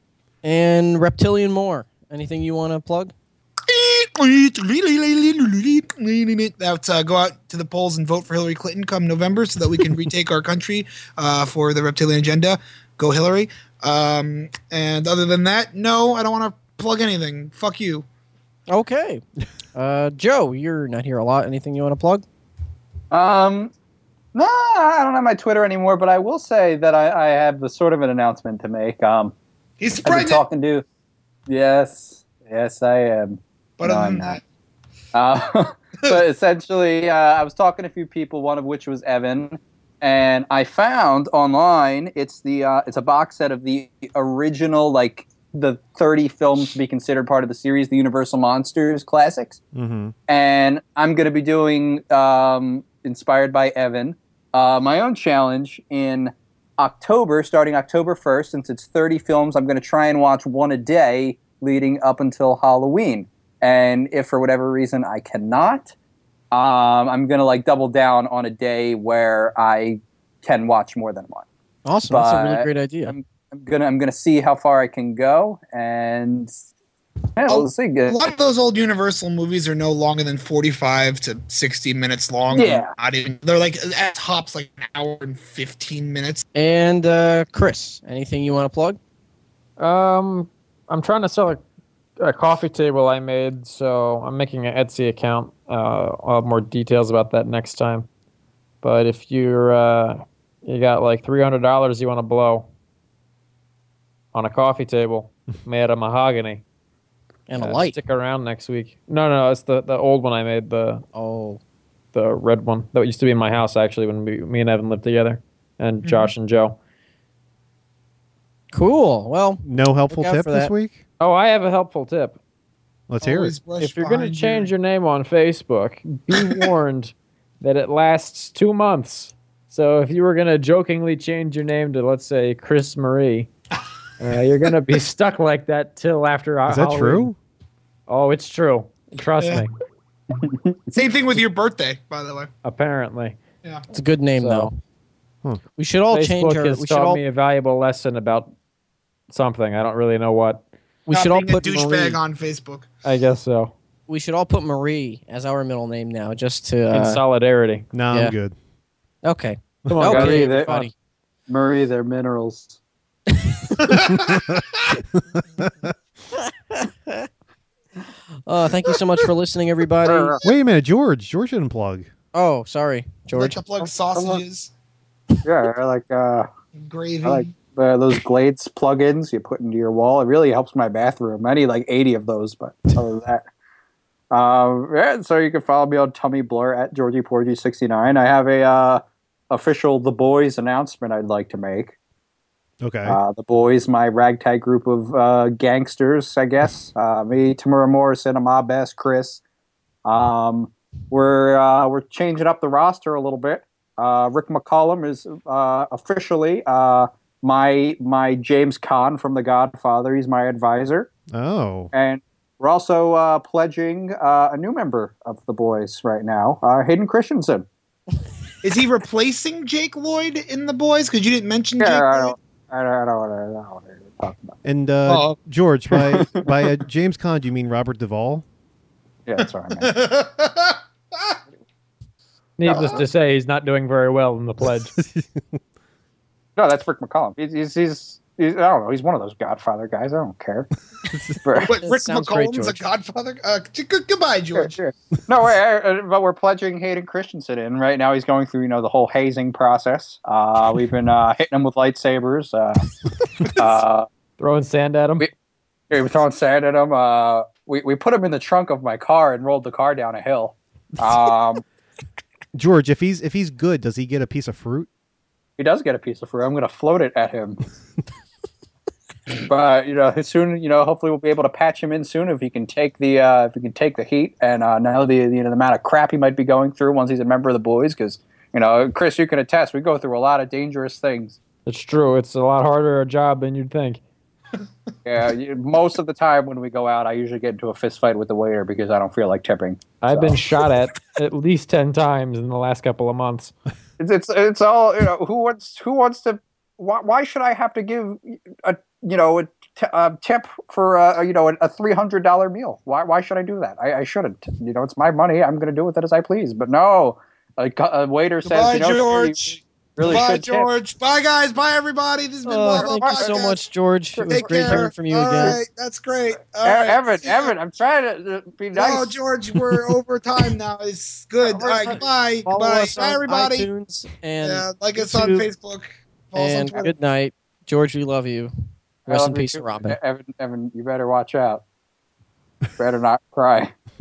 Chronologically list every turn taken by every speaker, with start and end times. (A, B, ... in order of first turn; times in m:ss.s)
0:00.4-0:03.1 A
0:03.7-0:18.0 B
0:18.7-0:19.2 A
0:19.7-0:22.2 A
0:23.1-0:23.7 C
0:24.3-0:29.3 C
0:29.8-0:30.4 B
0:30.0-0:30.8 C
0:31.5-0:34.4 C
0:33.8-0:34.4 B
0:35.1-0:49.6 C
0:49.7-0:50.1 D
0:50.3-1:05.9 C
1:06.5-1:11.4 C
1:11.8-1:13.1 A
1:12.1-1:16.5 C
1:17.3-1:18.3 C
1:17.5-1:26.4 B
1:22.5-1:22.9 C
1:26.5-1:29.0 A
1:29.8-1:31.6 E
1:32.2-1:38.1 E
1:38.8-1:42.7 E
1:44.3-1:46.6 E
1:47.5-1:48.0 A
1:47.6-1:51.0 E
1:51.1-1:51.6 A
1:52.1-1:56.8 E
1:56.0-1:56.3 B
1:58.7-2:00.7 A
1:59.6-2:01.0 D
2:01.2-2:02.4 E
2:03.1-2:03.5 D
2:03.2-2:04.7 B
2:03.8-2:13.5 E
2:06.4-2:06.7 B
2:14.2-2:17.3 E
2:16.7-2:17.4 D
2:18.1-2:19.7 E
2:19.4-2:19.6 B
2:20.3-2:20.9 C
2:20.9-2:22.5 B
2:22.6-2:23.4 E
2:23.9-2:24.7 A
2:24.4-2:24.7 E
2:25.8-2:27.2 A
2:26.1-2:28.5 E
2:29.3-2:30.6 E
2:31.1-2:32.2 A
2:31.1-2:32.9 B
2:33.0-2:33.7 E
2:34.1-2:37.2 A
2:36.9-2:37.8 E
2:37.9-2:38.6 D
2:39.2-2:40.9 A
2:39.9-2:40.9 E
2:40.0-2:40.7 C
2:41.5-2:42.8 C
2:43.8-2:44.4 B
2:44.2-2:44.6 D
2:45.3-2:45.9 D
2:46.7-2:47.3 A
2:48.4-2:50.3 A
2:50.0-2:50.4 C
2:50.4-2:52.1 D
2:52.3-2:53.6 A
2:53.3-2:54.7 B
2:54.1-2:54.4 C
2:55.4-2:56.5 C
2:56.8-2:57.6 B
2:57.2-3:03.4 C
3:04.3-3:12.0 C
3:12.8-3:13.2 D
3:13.0-3:19.4 C
3:20.0-3:31.1 C
3:31.3-3:31.9 D
3:31.9-3:37.6 C
3:38.6-3:42.3 B
3:41.8-3:44.6 C
3:44.6-3:48.4 D
3:45.1-3:45.4 B
3:45.9-3:46.5 C
3:49.2-3:49.9 C
3:49.8-3:51.4 B
3:52.6-3:54.9 E
3:52.7-3:53.0 B
3:52.7-3:53.0 C
3:55.0-3:55.4 D
3:56.6-4:00.7 C
4:01.1-4:01.4 D
4:01.4-4:01.8 C
4:01.6-4:04.8 B
4:01.8-4:02.8 A
4:04.5-4:12.8 C
4:13.5-4:14.1 C
4:14.4-4:15.3 E
4:15.9-4:21.6 C
4:22.5-4:24.9 D
4:25.6-4:27.6 C
4:29.4-4:41.4 C
4:41.6-4:44.0 E
4:45.0-4:50.4 C
4:50.0-4:53.5 E
4:54.0-5:10.7 C
5:08.4-5:13.6 B
5:12.4-5:15.6 A
5:12.7-5:13.4 C
5:14.2-5:15.6 C
5:14.3-5:17.5 B
5:16.6-5:19.1 C
5:18.7-5:23.7 B
5:21.4-5:25.5 A
5:24.4-5:26.9 B
5:26.3-5:28.5 A
5:29.0-5:31.6 C
5:29.1-5:30.0 A
5:32.8-5:33.7 C